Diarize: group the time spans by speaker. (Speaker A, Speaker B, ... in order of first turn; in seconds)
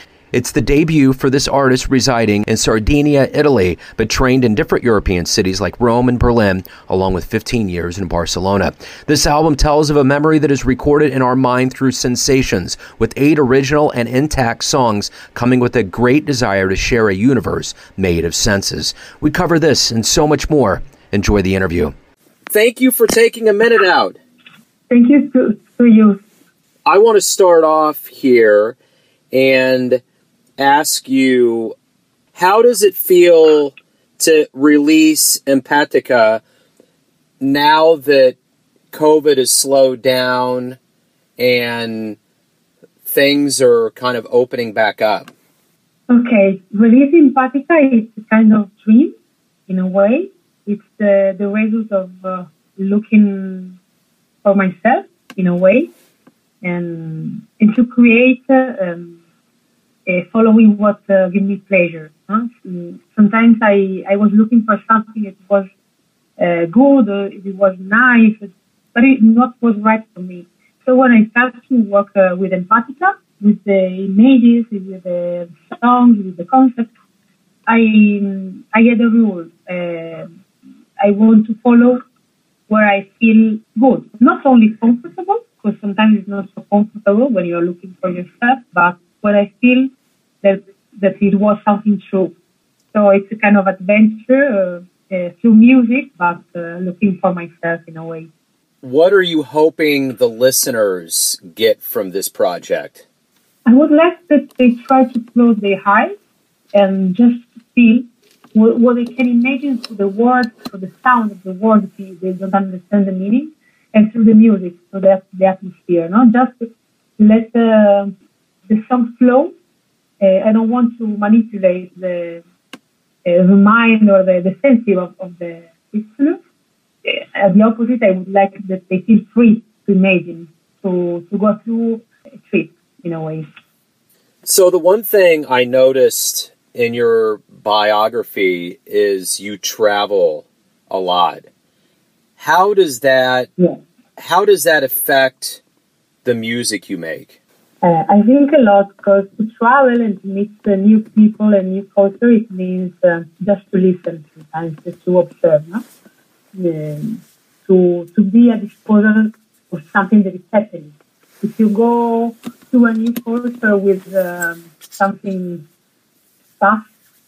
Speaker A: 0.3-21.9, 22.5-24.2, 26.9-28.8, 29.3-30.0, 30.6-31.8, 32.3-36.4, 37.4-38.4, 38.9-40.8, 41.4-42.2, 43.1-45.3, 98.8-103.0, 134.4-141.5, 142.4-143.5, 144.2-145.6, 146.2-147.4
Speaker B: 24.9-26.2, 46.1-49.1, 49.7-53.8, 54.4-55.9, 56.6-59.2, 60.1-65.7, 66.4-76.9, 77.7-80.3, 81.0-82.0, 82.7-89.9, 90.4-92.3, 92.9-98.3, 103.7-106.1, 106.7-118.1, 118.7-119.5, 120.2-122.4, 123.2-126.4, 127.0-133.5, 147.8-155.8, 156.5-165.6, 166.6-166.9